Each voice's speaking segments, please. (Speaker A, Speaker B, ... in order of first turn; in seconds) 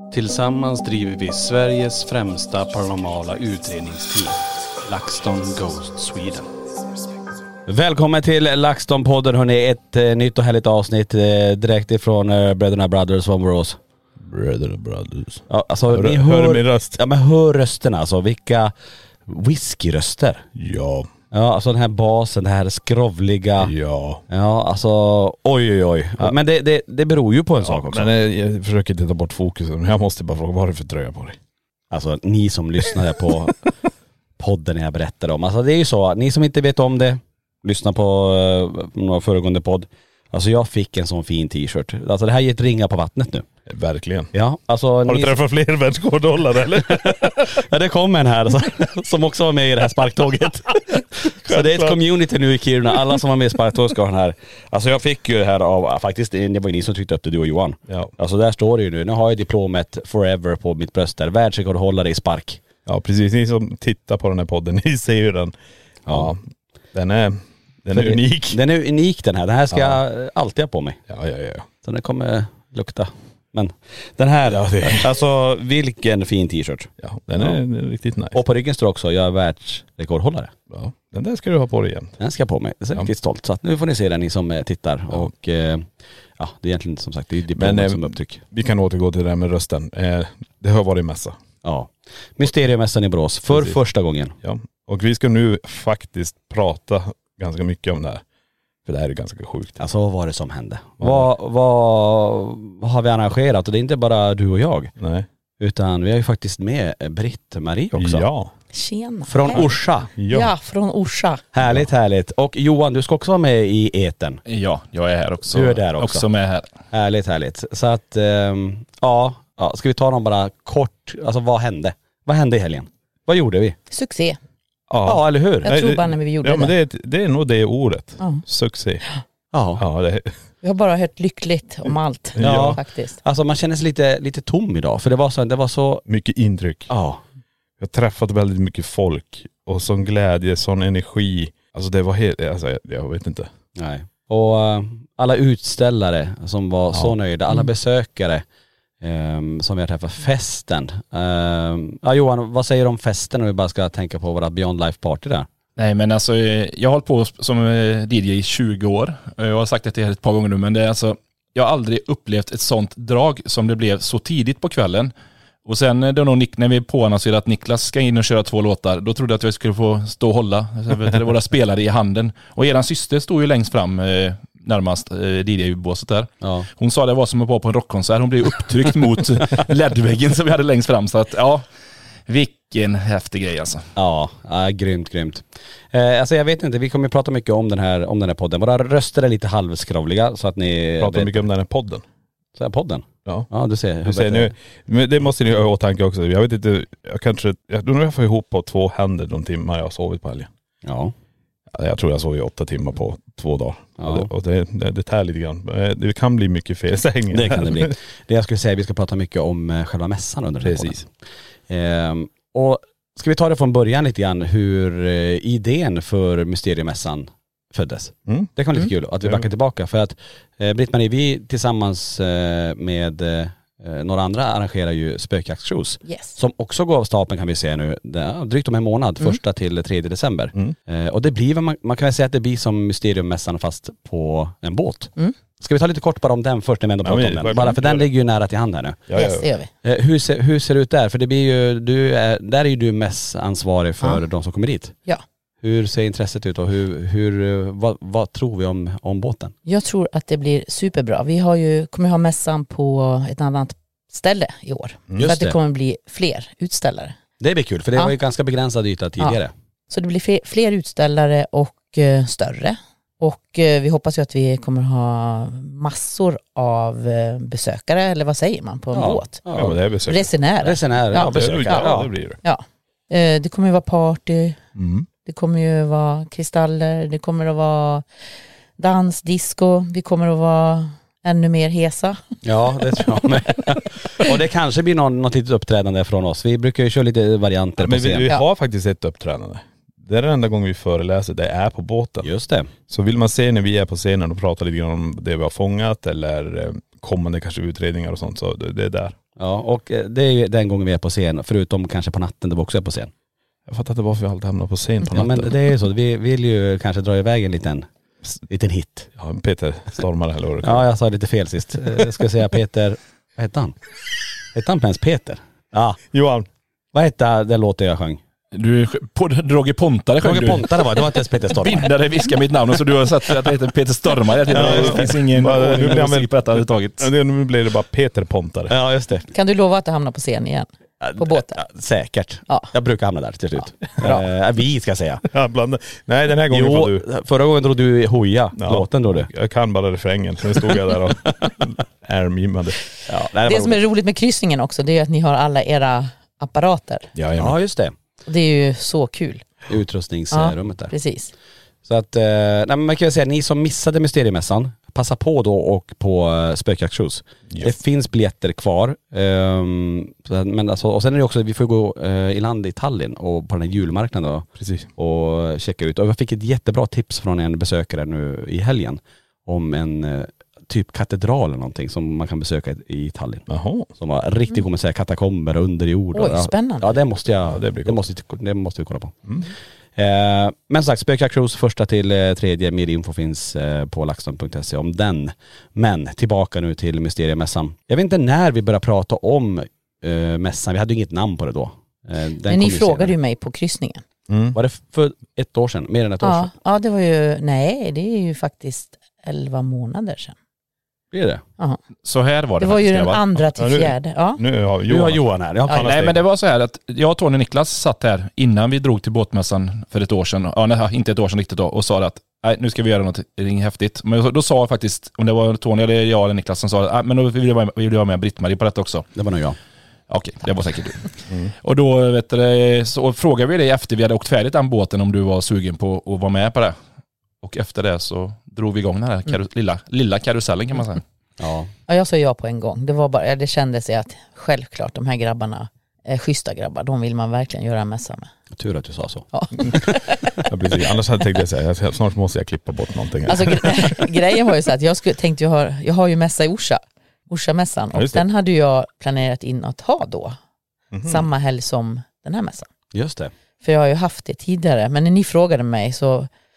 Speaker A: 0.1-6.5
Speaker B: 7.7-13.8, 15.5-18.7, 19.3-20.4, 21.3-23.7, 24.3-28.1, 31.9-33.7, 34.4-43.5, 44.3-45.3, 47.0-62.6, 67.9-71.0, 71.8-77.5, 78.3-80.5, 82.2-88.4, 91.6-94.3, 99.8-104.9, 105.6-108.2, 109.3-110.1, 111.5-114.4, 115.5-116.2, 116.9-123.8, 125.1-125.7, 129.5-129.8, 132.4-136.0, 136.9-137.2, 143.8-148.4, 149.0-155.5, 176.4-176.7, 184.0-191.4, 192.6-194.5, 200.8-201.1, 204.0-204.3, 207.3-211.1, 211.7-239.2, 239.8-245.0, 245.6-249.5, 255.2-255.6, 257.4-259.5, 268.9-269.8, 270.6-272.1, 282.4-288.3, 292.2-292.7, 299.4-303.1, 305.1-307.9, 308.5-309.1, 310.6-313.8, 314.5-316.0, 316.9-318.2, 320.2-321.9, 324.5-325.1, 328.7-329.3, 331.0-335.2, 336.5-339.3, 343.1-343.8, 347.4-347.9, 349.7-350.9, 351.9-379.2, 380.0-393.1, 394.5-396.5, 401.1-401.4, 404.9-406.2, 419.2-419.6, 431.4-431.7, 438.6-439.9, 452.9-453.3
Speaker C: 14.2-17.0, 20.6-21.1, 23.6-24.2, 27.6-31.4, 43.7-44.3, 45.0-47.6, 51.5-52.0, 62.9-65.5, 66.1-68.6, 69.7-70.0, 71.1-71.7, 74.5-75.1, 77.0-78.4, 80.7-82.2, 87.5-91.4, 93.5-93.8, 94.4-98.2, 98.9-99.9, 101.0-101.3, 105.0-105.3, 107.9-108.5, 109.5-110.5, 124.9-129.0, 129.8-130.3, 132.4-132.8, 136.1-136.9, 137.8-143.5, 191.0-192.0, 194.0-200.5, 201.7-207.9, 210.6-211.0, 219.2-219.5, 237.0-238.1, 239.1-239.4, 269.5-270.3, 271.1-272.4, 274.8-275.1, 287.8-292.3, 292.9-299.1, 303.7-305.6, 309.2-310.8, 316.1-316.5, 324.5-326.3, 327.0-328.7, 335.3-337.1, 338.6-342.8, 347.1-347.6, 357.5-357.8, 364.6-364.9, 373.5-373.9, 377.4-378.1, 394.3-394.6, 403.4-405.9, 440.4-444.1, 447.9-448.2, 450.9-451.3
Speaker D: 108.7-109.7, 110.3-111.4, 123.9-124.4, 125.6-126.7, 130.6-133.2, 226.1-226.3, 239.2-239.7, 249.7-257.1, 259.9-269.4, 270.1-274.6, 275.2-278.1, 278.8-282.2, 329.3-331.6, 343.5-347.1, 348.3-349.4, 350.3-351.3, 376.1-377.0, 392.5-394.0, 396.2-400.3, 402.6-404.4, 431.9-438.3, 439.3-440.5, 443.3-450.4, 451.0-452.7, 453.6-456.3
Speaker E: 114.5-116.7, 155.8-165.1, 165.7-181.7, 182.3-183.8, 318.5-327.1, 402.1-403.2, 405.7-419.1, 420.1-426.8, 427.4-431.0